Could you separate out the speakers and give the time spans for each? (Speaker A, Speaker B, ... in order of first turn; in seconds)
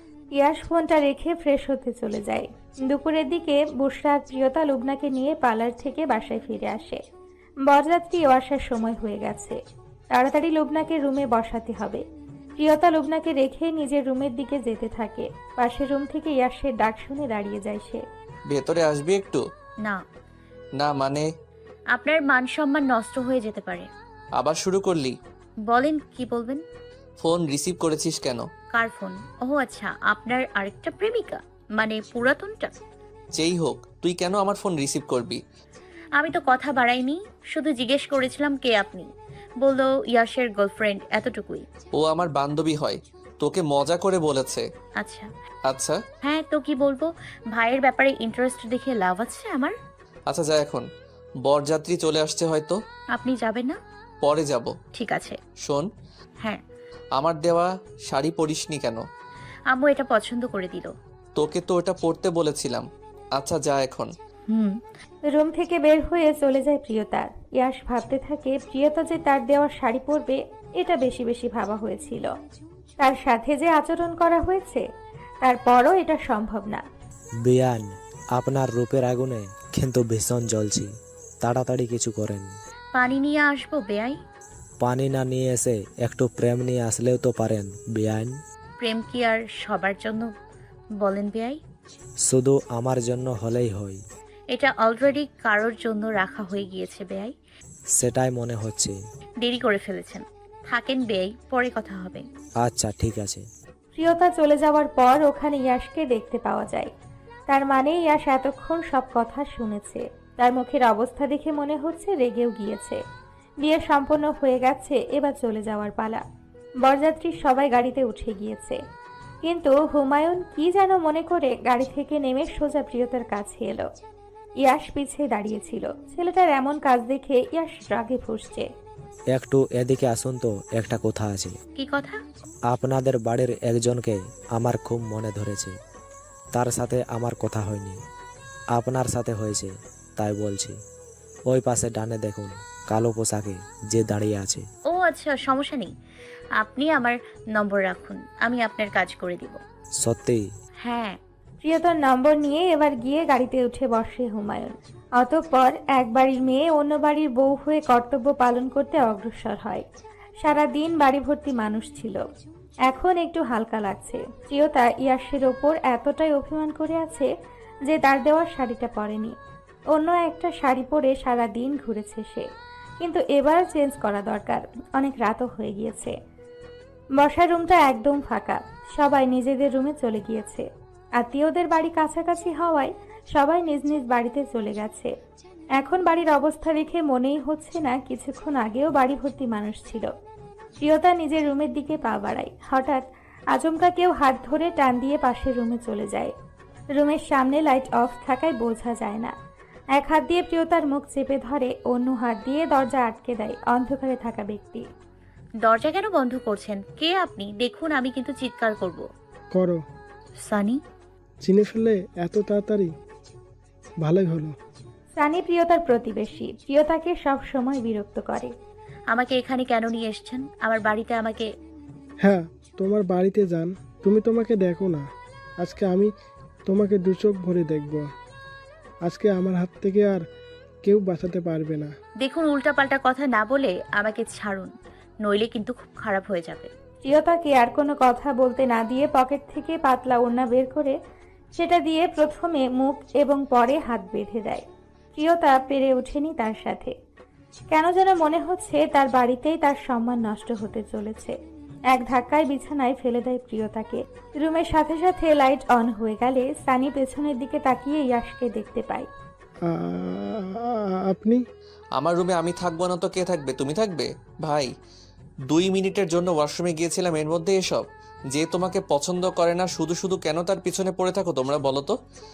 Speaker A: 0.4-7.0, 7.7-9.6, 10.1-12.0, 12.6-18.0, 65.3-72.3, 73.0-74.8, 75.4-76.8, 104.0-106.9, 107.5-113.0, 113.6-116.2, 116.8-118.8, 119.4-123.9, 124.6-128.7, 151.6-159.8, 160.4-162.2, 162.9-167.3, 167.9-169.4, 169.9-172.5, 173.0-176.2, 177.2-185.1, 185.8-190.1, 190.8-196.3, 196.9-199.3, 199.9-204.9, 215.2-218.5, 237.1-241.0, 241.6-244.7, 245.2-246.9, 247.7-251.4, 251.9-259.1
Speaker B: 18.5-19.4, 20.8-21.3, 24.4-25.2, 27.2-28.4, 33.4-35.4, 42.0-44.7, 45.7-46.0, 50.3-50.9, 51.5-52.8, 54.2-54.7, 57.2-59.0, 61.4-64.1, 262.0-264.7, 265.5-272.0
Speaker C: 21.9-23.9, 25.7-26.6, 28.7-32.7, 36.2-39.1, 39.6-41.7, 45.0-45.3, 46.2-49.8, 53.1-53.8, 55.0-55.4, 59.7-60.9, 64.5-64.8, 83.0-84.2, 88.8-90.3, 91.0-91.6, 94.5-97.3, 99.4-102.2, 131.8-132.2, 144.9-145.9, 146.6-149.6, 150.8-151.2, 205.6-209.1, 210.5-210.8, 219.1-221.5, 232.2-234.7, 235.2-236.7
Speaker D: 77.5-80.9, 81.4-82.5, 84.8-88.3, 92.3-94.0, 98.0-99.0, 102.6-103.4, 129.3-131.6, 132.7-135.7, 136.5-138.0, 138.8-140.8, 141.5-144.7, 150.0-150.5
Speaker E: 209.6-209.8, 211.4-212.9, 214.0-214.5, 222.2-225.0, 225.6-226.1, 226.7-228.1, 229.1-230.2, 230.8-231.9, 259.7-261.4